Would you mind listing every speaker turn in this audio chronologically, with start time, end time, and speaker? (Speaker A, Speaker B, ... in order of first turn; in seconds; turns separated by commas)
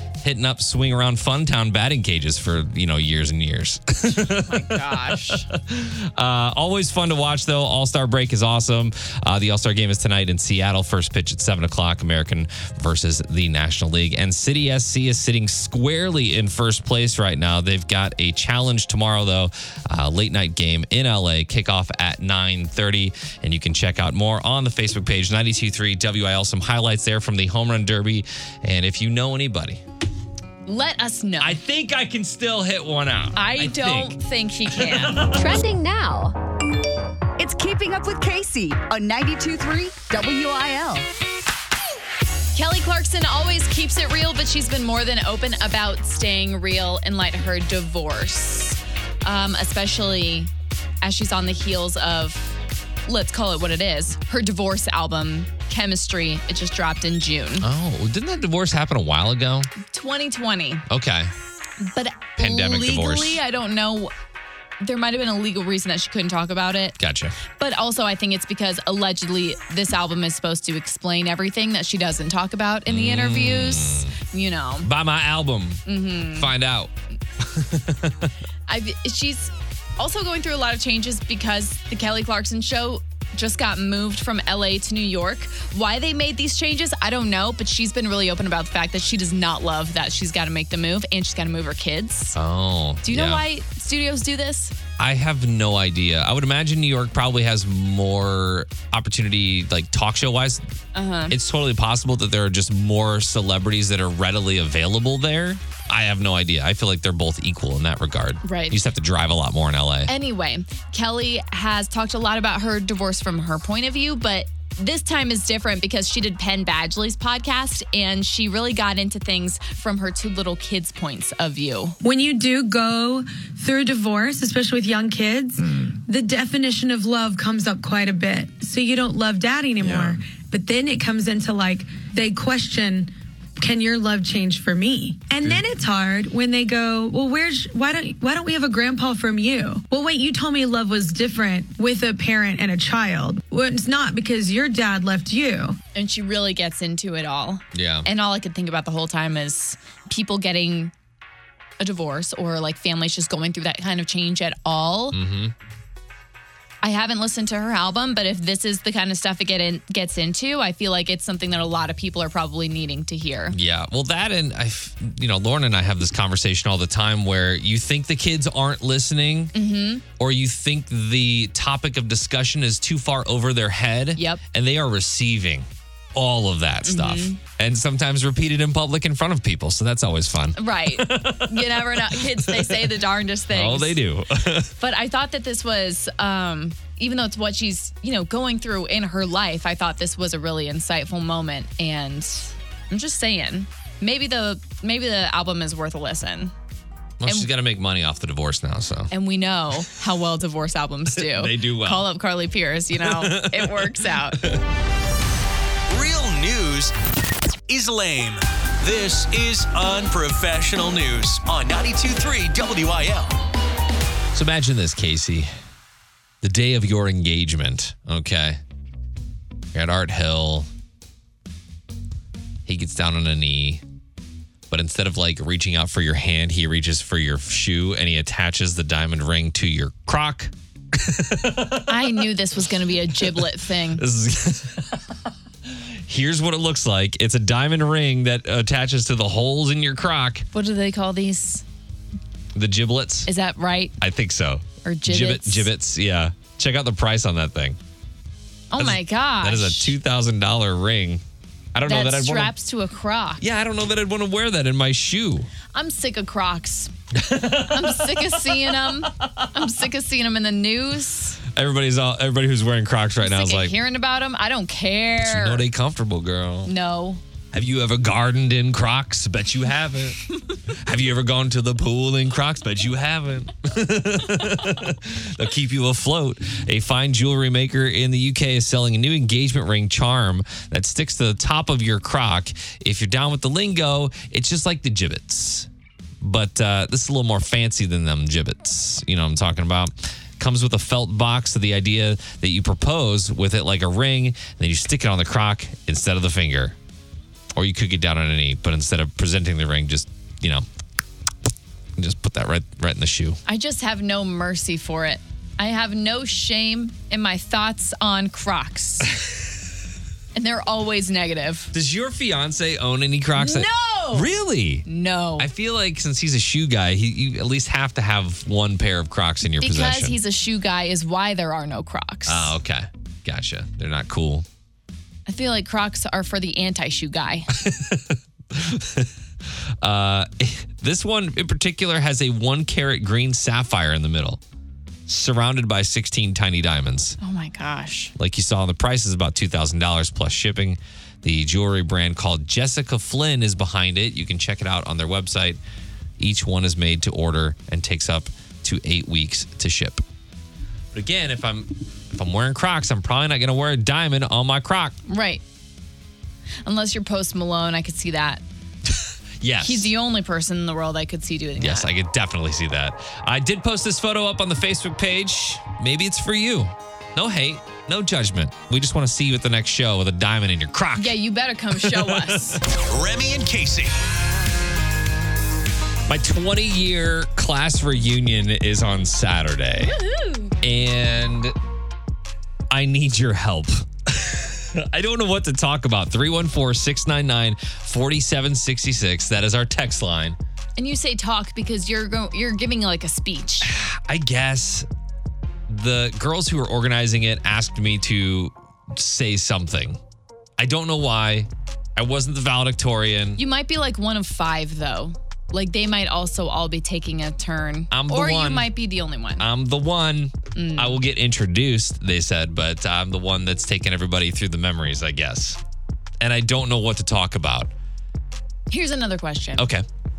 Speaker A: 0.2-29.8, Speaker B: 4.0-5.5, Speaker B: 30.6-31.6, Speaker A: 31.4-35.6, Speaker B: 33.3-35.4, Speaker C: 35.3-36.4, Speaker C: 37.4-41.1, Speaker B: 42.5-50.5, Speaker B: 51.0-57.7, Speaker A: 57.6-59.7, Speaker B: 59.8-60.8, Speaker A: 60.9-61.3, Speaker B: 61.8-64.1, Speaker A: 62.4-63.4, Speaker B: 64.8-67.0, Speaker A: 67.0-67.3, Speaker B: 67.6-74.9, Speaker A: 72.9-74.1, Speaker A: 74.8-78.3, Speaker B: 75.8-76.5, Speaker B: 78.7-92.4, Speaker A: 92.3-93.4, Speaker B: 93.0-94.7, Speaker A: 95.0-100.6, Speaker B: 100.9-101.3, Speaker A: 101.3-110.1, Speaker B: 108.4-108.8, Speaker B: 110.1-122.0, Speaker D: 122.0-145.8, Speaker B: 145.9-150.9, Speaker A: 147.7-148.1, Speaker B: 151.8-155.2, Speaker A: 155.1-155.5, Speaker B: 156.8-163.6, Speaker A: 163.5-169.5, Speaker B: 169.5-170.0, Speaker A: 170.2-184.7, Speaker B: 174.2-174.4, Speaker B: 176.8-177.4, Speaker B: 180.6-184.0, Speaker B: 184.8-196.5, Speaker A: 197.2-199.1, Speaker B: 199.1-204.5, Speaker A: 201.1-202.1, Speaker A: 202.9-204.6, Speaker E: 205.9-206.9, Speaker E: 207.7-213.3, Speaker A: 214.3-215.5, Speaker A: 216.4-218.6, Speaker A: 219.7-220.7, Speaker A: 222.7-223.8, Speaker A: 224.7-232.3, Speaker B: 231.9-234.0, Speaker A: 233.0-235.1, Speaker A: 235.6-240.5, Speaker B: 240.5-241.6, Speaker A: 242.5-243.3, Speaker B: 243.3-243.9, Speaker A: 244.0-247.8, Speaker B: 244.8-245.7, Speaker B: 248.7-249.9, Speaker A: 248.8-251.2, Speaker A: 251.7-252.5, Speaker B: 251.8-253.4, Speaker A: 253.4-255.5, Speaker B: 255.7-256.9, Speaker A: 257.1-259.6, Speaker B: 257.4-261.4, Speaker A: 261.5-263.7, Speaker B: 263.2-265.6, Speaker A: 265.2-266.7, Speaker B: 266.6-267.2, Speaker A: 267.5-285.7, Speaker A: 286.2-296.8, Speaker A: 297.6-300.6, Speaker A: 301.9-303.4, Speaker B: 303.4-309.1, Speaker B: 310.3-311.7, Speaker A: 311.7-314.9, Speaker B: 313.3-314.3, Speaker B: 314.9-315.5, Speaker A: 315.4-320.2, Speaker B: 319.6-322.6, Speaker A: 322.2-324.4, Speaker B: 325.3-327.5, Speaker A: 327.5-329.1, Speaker A: 329.8-334.4, Speaker A: 335.1-337.2, Speaker B: 337.2-338.1, Speaker A: 338.1-345.6, Speaker A: 346.2-350.0, Speaker A: 350.9-355.0, Speaker B: 355.1-355.4, Speaker B: 356.6-358.4, Speaker A: 358.9-359.9, Speaker B: 359.6-361.9, Speaker A: 361.6-371.2, Speaker B: 371.0-372.6, Speaker A: 371.7-372.6, Speaker E: 372.7-373.9, Speaker A: 376.1-379.9, Speaker B: 379.8-380.5, Speaker A: 380.6-381.5, Speaker A: 382.7-390.4, Speaker B: 390.8-393.7, Speaker A: 393.6-394.9, Speaker A: 395.7-400.0, Speaker A: 400.6-403.4, Speaker B: 403.4-409.5, Speaker A: 407.9-408.7, Speaker A: 409.4-415.6, Speaker B: 410.5-411.0, Speaker A: 416.2-417.7, Speaker B: 418.7-419.7, Speaker A: 419.6-419.9